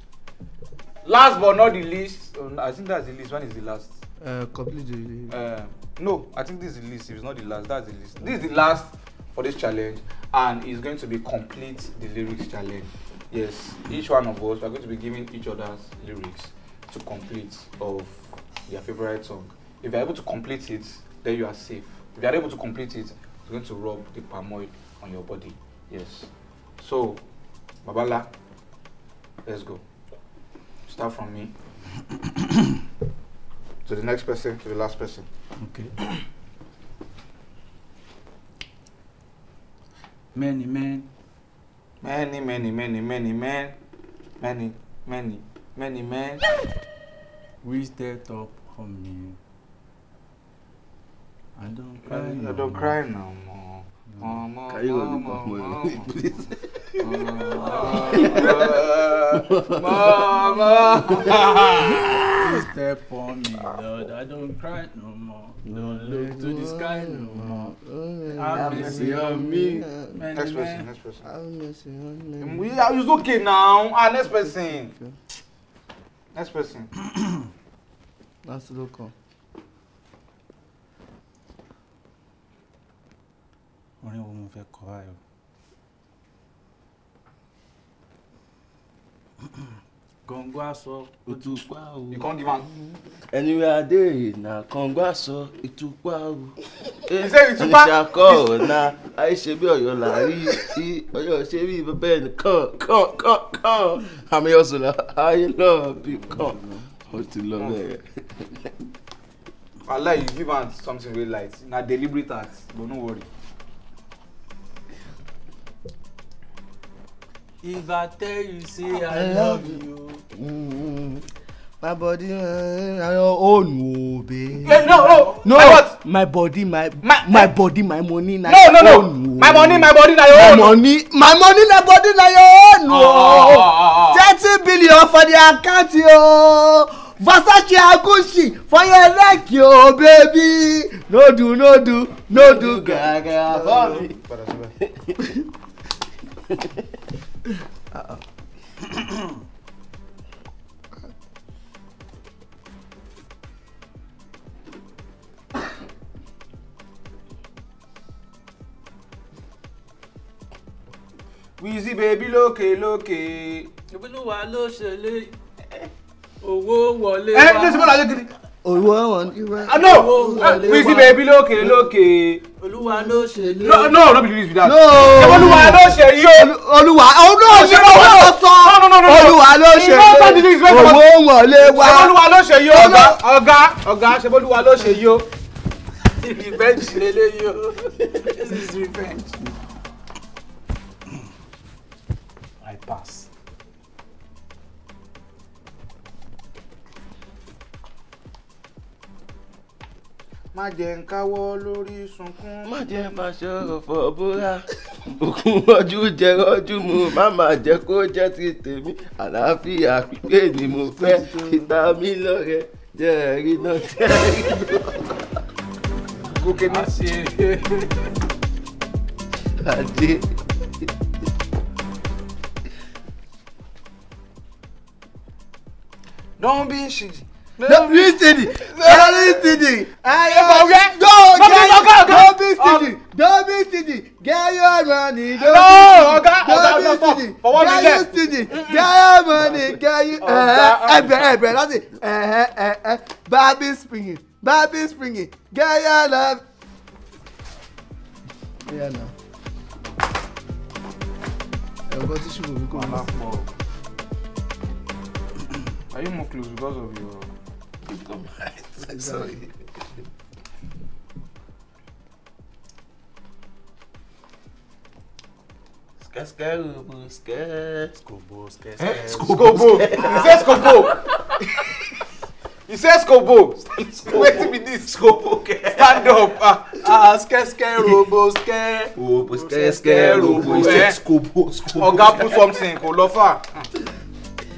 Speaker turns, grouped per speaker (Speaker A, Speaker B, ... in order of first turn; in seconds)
Speaker A: 1.0-3.9, 5.3-27.2, 27.8-28.3, 29.4-29.8, 30.9-31.5, 33.9-35.3, 42.0-43.7, 44.4-46.4, 52.1-56.1, 57.0-62.3, 70.3-71.2, 72.4-74.9, 76.3-76.9, 92.1-92.7, 97.2-98.7, 107.6-107.8, 109.8-113.3, 124.6-126.0, 127.0-127.5, 128.4-130.8, 132.9-134.2, 143.7-144.7, 161.6-163.7, 167.3-168.3, 169.7-172.4, 173.6-176.5, 177.5-181.0, 181.6-185.2, 200.5-202.7, 216.3-217.2, 226.4-229.6, 230.2-232.9, 235.4-238.9, 240.2-241.3, 252.7-253.5, 255.9-257.3, 269.2-270.9, 272.7-275.0, 275.7-276.7, 279.8-281.0, 281.7-283.7
Speaker B: 4.2-5.3, 65.8-70.2, 71.2-72.7, 74.9-75.1, 78.4-79.1, 118.9-119.8, 120.3-121.2, 121.8-124.8, 125.4-144.1, 147.9-148.2, 168.6-171.8, 172.8-174.0, 174.6-183.2, 210.8-211.7, 227.6-246.4, 248.7-249.1, 251.9-253.1, 258.8-259.3, 280.1-280.8
Speaker C: 32.2-32.7, 35.6-35.9, 40.3-41.1, 47.6-49.4, 51.5-53.0, 54.1-54.4, 57.5-58.6, 62.4-67.7, 68.3-69.2, 70.1-70.9, 77.2-77.4, 84.0-85.2, 90.2-91.6, 117.6-120.2, 124.7-125.4, 148.9-149.3, 163.9-165.3, 166.4-168.0, 169.7-171.1, 172.6-174.0, 186.1-189.4, 192.6-193.3, 216.5-218.1, 267.9-269.4, 270.0-271.4, 276.8-281.0
Speaker D: 54.7-57.1, 58.0-58.8, 59.3-60.2, 61.0-61.5, 68.5-69.8, 91.3-92.2, 93.3-106.6, 107.1-108.7, 142.3-144.2, 144.8-145.2, 146.5-146.8, 202.6-215.2, 219.6-220.3, 257.9-259.5, 266.0-267.9, 268.8-270.7, 273.8-276.2, 278.9-282.4